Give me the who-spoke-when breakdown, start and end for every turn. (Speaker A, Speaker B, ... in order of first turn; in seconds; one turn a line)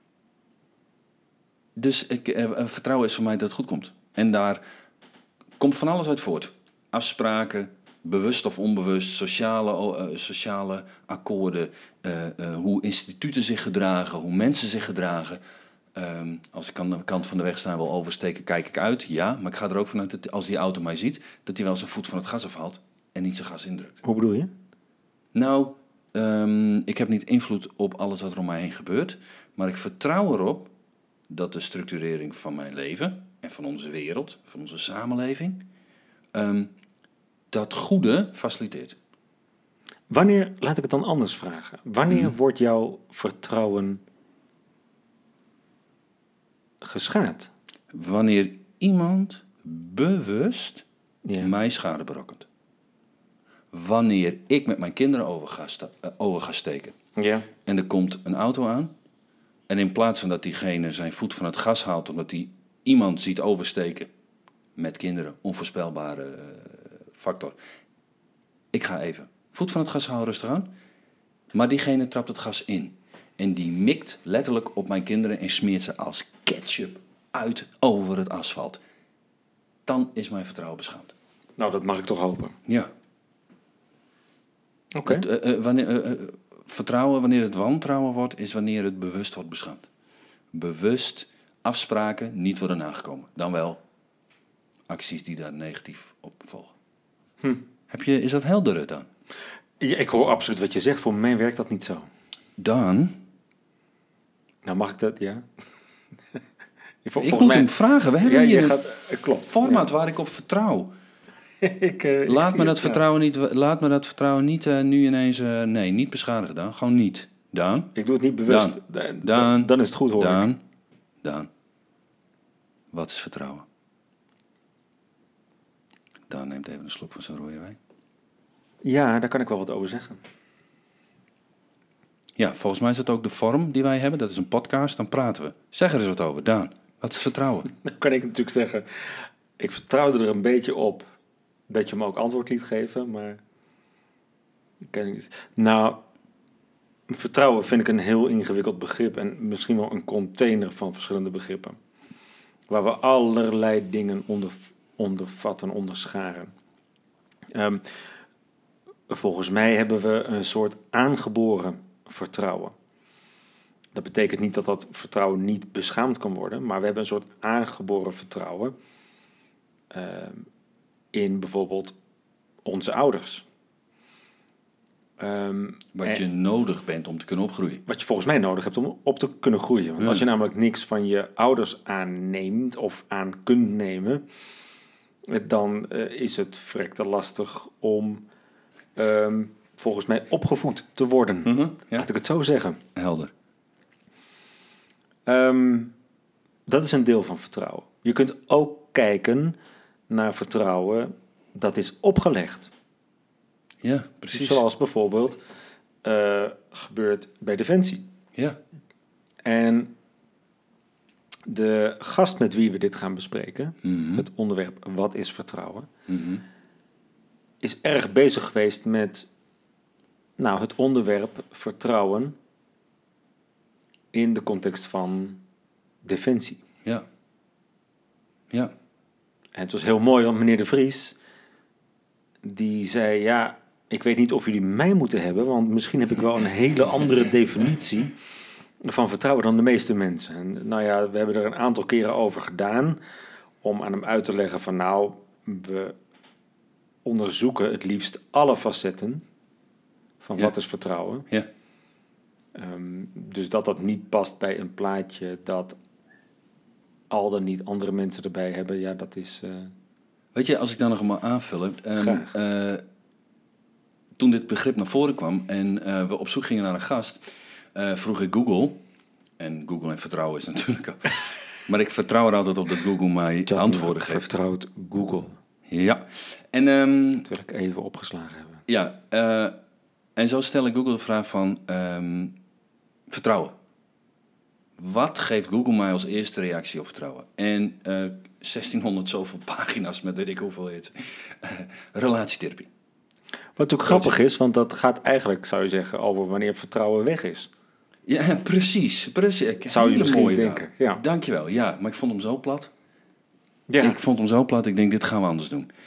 Speaker A: 1.8-4.6
Speaker A: 5.6-15.4
Speaker A: 15.9-24.0
Speaker B: 24.0-24.5
Speaker A: 25.3-30.7
Speaker A: 31.3-35.6
Speaker A: 36.3-36.7
Speaker A: 37.5-39.0
Speaker B: 40.1-44.0
Speaker B: 46.8-47.5
Speaker A: 47.9-50.8
Speaker B: 51.2-51.5
Speaker A: 51.4-52.5
Speaker A: 53.7-56.9
Speaker B: 57.2-57.5
Speaker A: 57.6-58.9
Speaker A: 59.7-64.1
Speaker A: 64.8-67.5
Speaker A: 68.7-70.7
Speaker A: 71.5-78.8
Speaker A: 79.8-81.1
Speaker B: 81.6-82.5
Speaker B: 84.9-85.2
Speaker A: 85.0-89.8
Speaker A: 90.5-93.8
Speaker A: 94.9-96.7
Speaker A: 97.9-99.1
Speaker B: 99.8-102.1
Speaker A: 102.6-103.2
Speaker B: 104.6-105.4
Speaker B: 107.0-109.9
Speaker A: 107.2-110.9
Speaker B: 111.6-113.0
Speaker A: 112.2-117.9
Speaker B: 117.9-120.5
Speaker A: 118.5-120.6
Speaker A: 121.2-121.5
Speaker A: 122.9-123.7
Speaker A: 126.3-127.8
Speaker B: 128.8-130.2
Speaker A: 132.4-137.7
Speaker B: 137.8-138.9
Speaker B: 139.6-141.1
Speaker B: 141.7-143.4
Speaker B: 144.9-146.0
Speaker B: 147.1-151.8
Speaker B: 152.7-156.5
Speaker B: 157.5-157.8
Speaker B: 159.1-162.7
Speaker B: 163.9-168.7
Speaker B: 169.9-170.4
Speaker B: 171.1-172.0
Speaker B: 172.6-173.4
Speaker B: 175.2-176.2
Speaker A: 175.9-177.8
Speaker B: 177.9-184.2
Speaker A: 180.0-180.2
Speaker B: 185.3-188.2
Speaker B: 188.9-192.8
Speaker A: 191.4-192.1
Speaker A: 192.9-193.3
Speaker B: 195.2-195.9
Speaker B: 196.7-199.6
Speaker B: 200.1-202.7
Speaker A: 203.8-204.6
Speaker B: 204.3-205.4
Speaker B: 206.0-208.1
Speaker B: 209.4-209.9
Speaker B: 211.5-215.9
Speaker A: 213.8-214.2
Speaker A: 216.1-216.4
Speaker B: 217.6-219.3
Speaker B: 220.4-222.3
Speaker B: 224.1-225.4
Speaker B: 226.0-226.6
Speaker B: 229.6-231.2
Speaker B: 232.4-238.2
Speaker B: 238.8-243.0
Speaker B: 243.6-245.9
Speaker B: 247.0-249.2
Speaker B: 250.2-251.2
Speaker B: 252.5-255.8
Speaker B: 257.1-259.7
Speaker A: 260.3-262.8
Speaker B: 262.0-262.3
Speaker A: 264.2-267.2
Speaker A: 267.7-268.8
Speaker A: 269.4-271.1
Speaker A: 271.7-274.3
Speaker B: 273.5-275.3
Speaker A: 275.7-277.3
Speaker B: 277.2-278.6
Speaker A: 278.7-279.6
Speaker A: 280.2-282.4
Speaker A: 283.1-283.5
Speaker A: 284.8-292.7
Speaker B: 293.6-297.5
Speaker A: 293.9-294.2
Speaker A: 298.1-302.7
Speaker B: 299.7-301.0
Speaker B: 303.7-304.0
Speaker A: 303.8-305.7